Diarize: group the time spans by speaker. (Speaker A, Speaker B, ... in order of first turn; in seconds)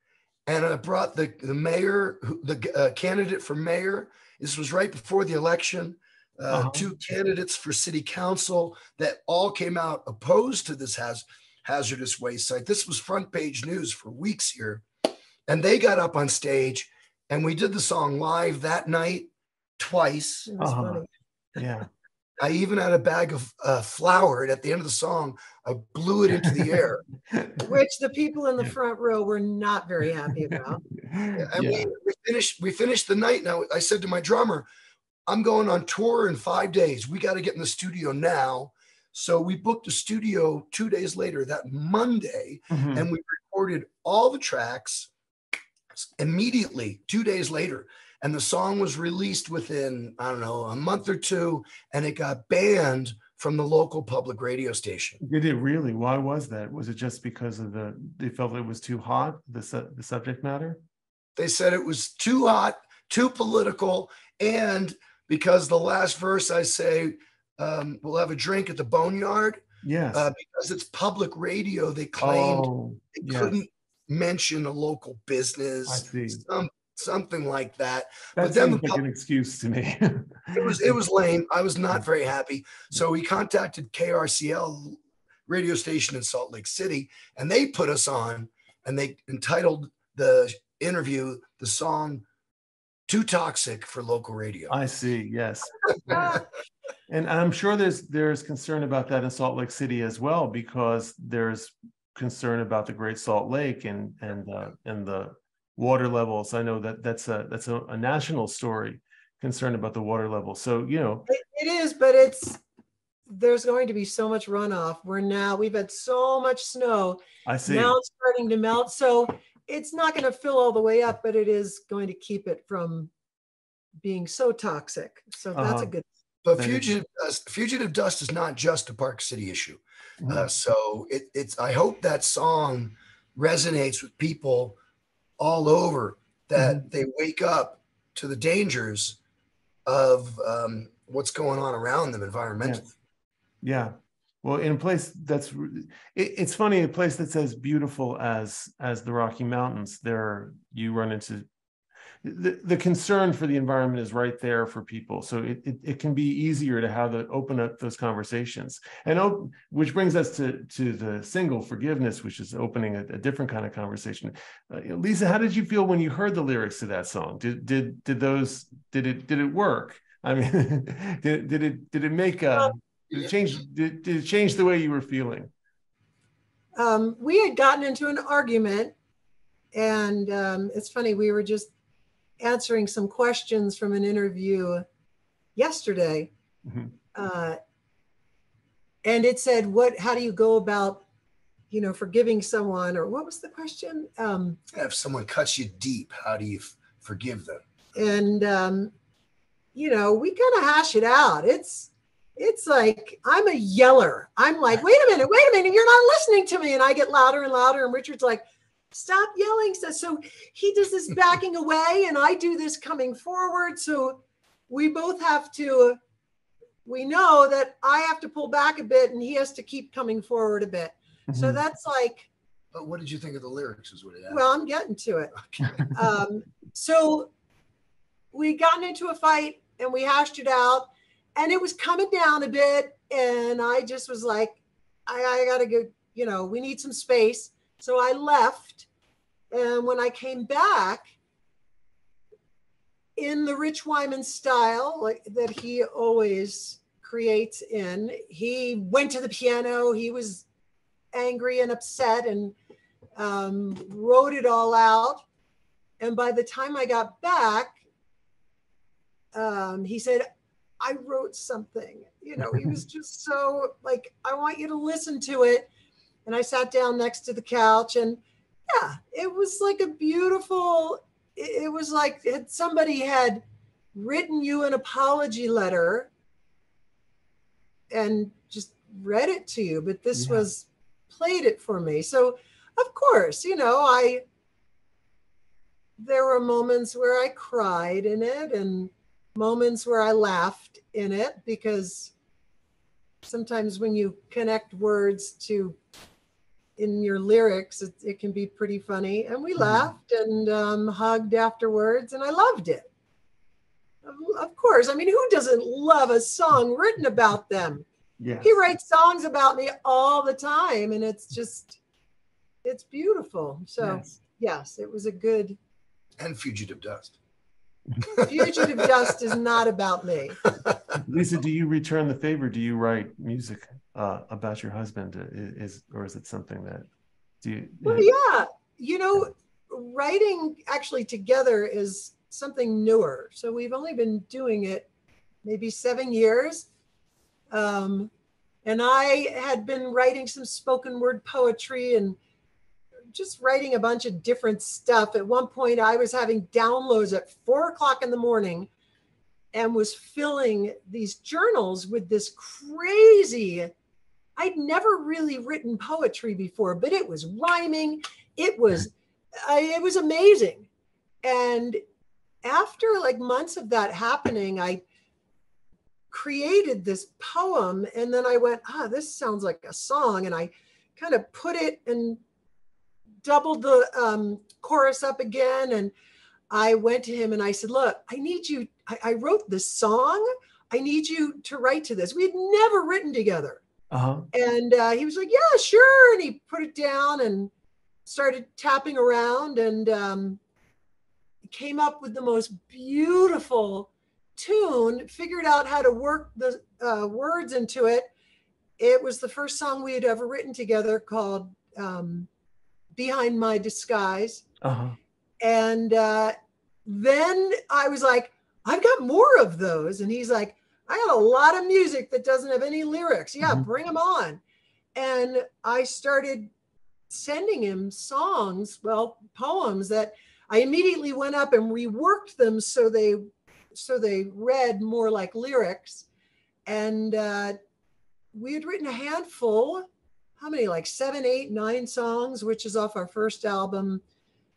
Speaker A: 0.5-14.8, 15.5-20.5, 22.4-27.0, 31.3-34.7, 35.3-45.1, 45.9-55.2, 61.4-79.0, 80.5-92.2, 93.1-94.7, 96.1-96.3, 126.4-134.8, 135.4-139.2, 139.9-142.8, 194.7-197.6, 222.7-224.4, 225.4-225.8, 316.2-317.1, 318.0-318.9, 320.4-321.0
Speaker B: 6.5-6.8, 20.6-21.0, 21.6-21.9, 27.3-27.6, 30.5-31.9, 42.7-43.0, 55.2-60.8, 69.8-70.2, 72.2-73.5, 75.9-76.4, 78.3-81.0, 94.7-96.4, 97.1-111.3, 117.5-118.0, 125.5-125.9, 126.5-126.9, 130.2-130.5, 136.6-136.8, 143.6-151.5, 152.2-175.5, 186.7-186.9, 221.3-221.6, 280.1-280.4, 299.6-299.9, 308.2-308.5, 313.8-314.1, 321.0-326.9, 327.4-328.1, 383.9-384.3, 404.6-405.0, 413.4-413.7
Speaker C: 20.5-21.1, 27.6-30.8, 111.3-112.6, 113.3-123.1, 124.0-126.0, 176.7-178.9, 179.7-181.7, 182.4-184.8, 185.6-186.3, 187.1-187.6, 189.0-191.0, 191.7-194.6, 197.9-198.9, 199.7-216.0, 216.8-222.3, 224.3-225.3, 225.9-227.3, 228.3-238.9, 239.5-241.1, 243.2-250.4, 251.1-252.5, 253.2-255.2, 256.0-257.8, 259.3-260.3, 260.8-265.7, 266.2-273.4, 273.9-276.1, 277.9-284.2, 286.0-292.1, 293.2-295.8, 296.8-302.9, 304.0-307.9, 308.4-311.8, 312.6-315.6, 318.2-320.4, 327.8-334.9, 335.4-336.7, 337.5-338.1, 338.6-342.2, 343.1-348.7, 349.5-353.7, 354.4-360.7, 361.2-361.8, 362.4-364.8, 366.1-372.2, 373.2-375.9, 376.5-383.6, 384.3-387.5, 388.1-390.4, 391.5-398.1, 398.8-402.3, 402.9-404.4, 405.4-414.4, 414.9-416.5, 417.1-426.0, 426.6-427.6, 428.3-429.9, 430.4-434.0